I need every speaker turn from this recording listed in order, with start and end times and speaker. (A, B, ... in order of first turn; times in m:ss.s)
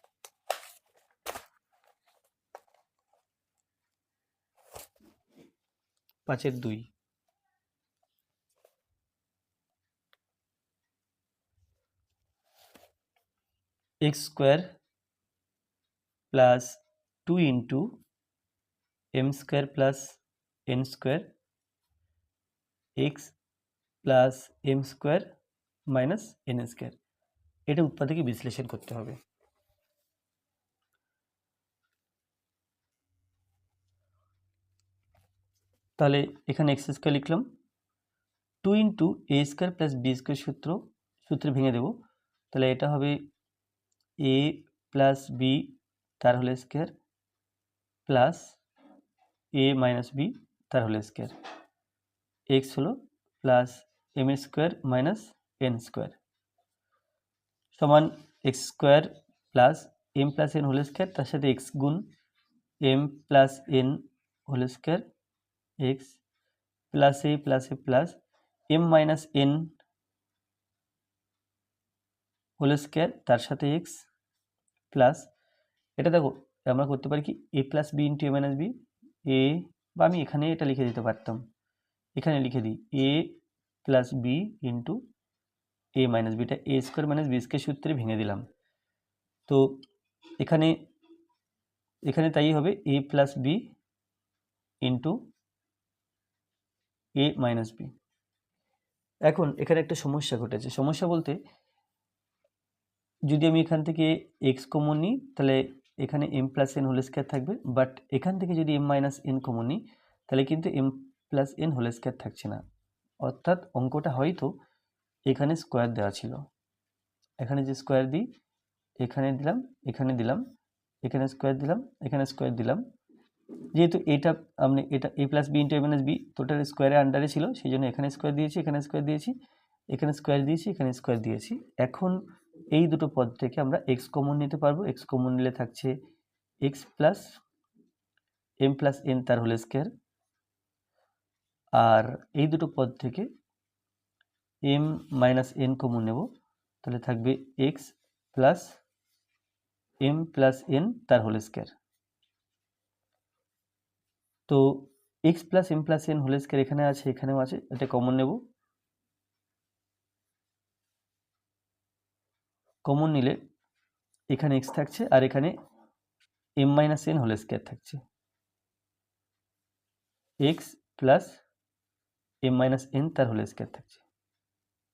0:06.3-0:06.9 A
0:14.0-0:14.8 A
0:16.3-0:18.0 A
0:19.1-0:21.3 A
0:23.0-0:23.4 A
0:24.0-0:25.3 A
0:25.9-0:27.0 A
0:27.7-0:29.2 A
0:36.0-0:37.5 A
0:38.6-0:42.0 A
0:42.5-0:43.2 A
0:44.2-0:46.9 A
0:48.1-0:48.6 A
0:49.5-0:51.3 A
0:52.5-0:56.2 A
0:57.8-1:02.1 A
1:02.8-1:05.0 A
1:05.8-1:06.2 A
1:06.9-1:08.2 A
1:08.7-1:09.8 A
1:12.6-1:14.0 A
1:14.9-1:15.3 A
1:16.0-1:21.4 A
1:22.2-1:25.0 A
1:26.0-1:28.5 A
1:29.5-1:29.8 A
1:30.4-1:30.8 A
1:32.1-1:33.6 A
1:34.8-1:35.2 A
1:37.2-1:37.9 A
1:39.2-1:41.4 A
1:43.3-1:52.6 A
1:53.2-1:54.6 A
1:55.3-1:56.5 A
1:57.4-1:58.3 A
1:59.0-2:00.4 A
2:01.0-2:02.8 A
2:03.7-2:09.3 A
2:09.9-2:15.9 A
2:16.6-2:17.4 A
2:18.6-2:19.9 A
2:21.8-2:23.3 A
2:24.7-2:26.3 A
2:26.8-2:28.8 A
2:30.0-2:31.7 A
2:34.5-2:38.4 A
2:42.8-2:43.4 A
2:44.3-2:45.5 A
2:46.6-2:48.0 A
2:50.4-2:51.4 A
2:52.4-2:54.0 A